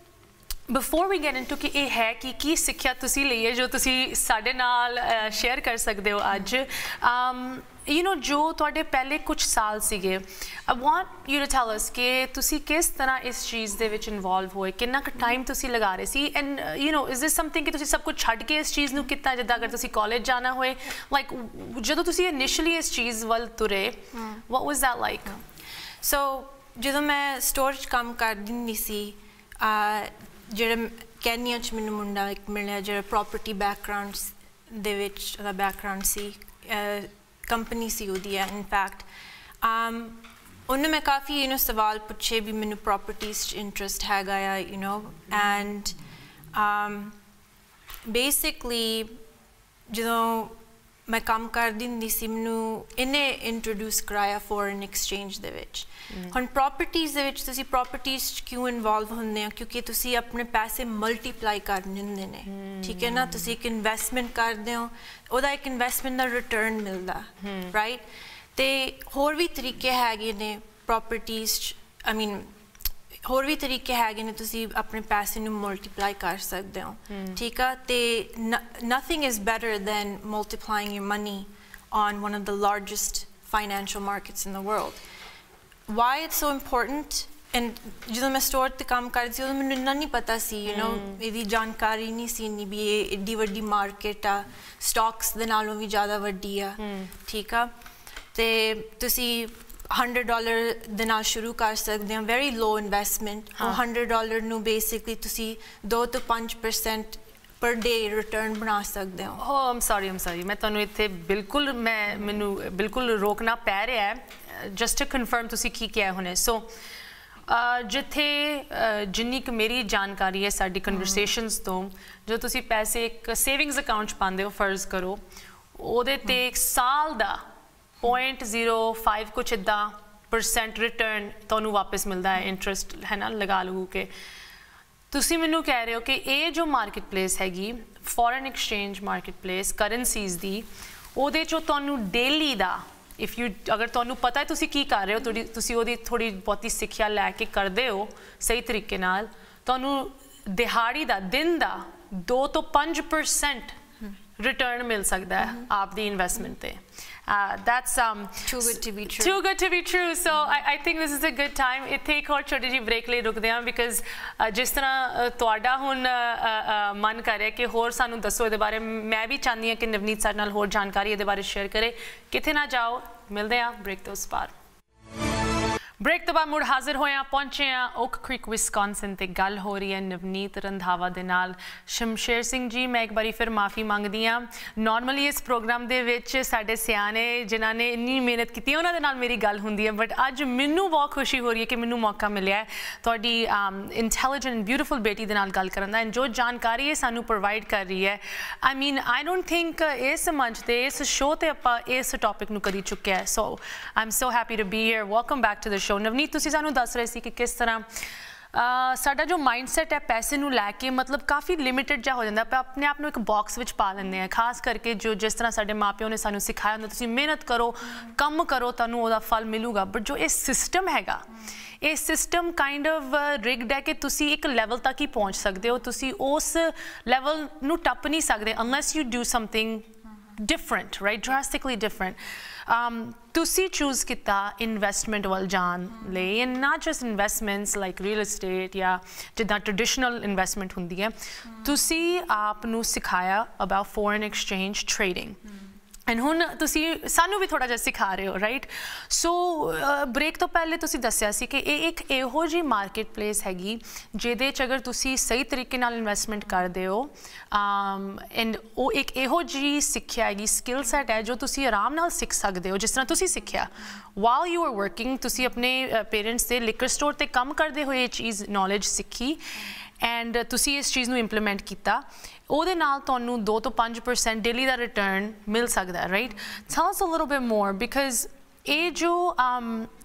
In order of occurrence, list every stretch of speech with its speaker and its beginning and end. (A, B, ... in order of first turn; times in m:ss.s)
0:00.7-0:25.4 A
0:24.1-0:24.4 B
0:26.0-0:39.1 B
0:39.6-0:46.0 B
0:46.5-0:47.2 B
0:48.0-0:49.2 B
0:49.9-1:12.6 B
0:56.1-0:56.4 A
1:02.5-1:03.5 A
1:07.4-1:07.7 A
1:13.2-1:25.0 B
1:17.1-1:17.4 A
1:25.9-1:37.7 B
1:30.7-1:31.2 A
1:36.8-1:37.1 A
1:38.3-1:49.4 B
1:49.3-1:56.7 A
1:57.5-2:05.2 A
2:00.9-2:01.3 B
2:05.8-2:07.4 A
2:08.0-2:14.1 A
2:15.1-2:33.8 A
2:34.4-2:54.5 A
2:35.4-2:35.7 B
2:38.5-2:39.4 B
2:56.0-3:27.9 A
3:28.5-3:41.3 A
3:41.8-4:05.4 A
4:06.1-4:39.9 A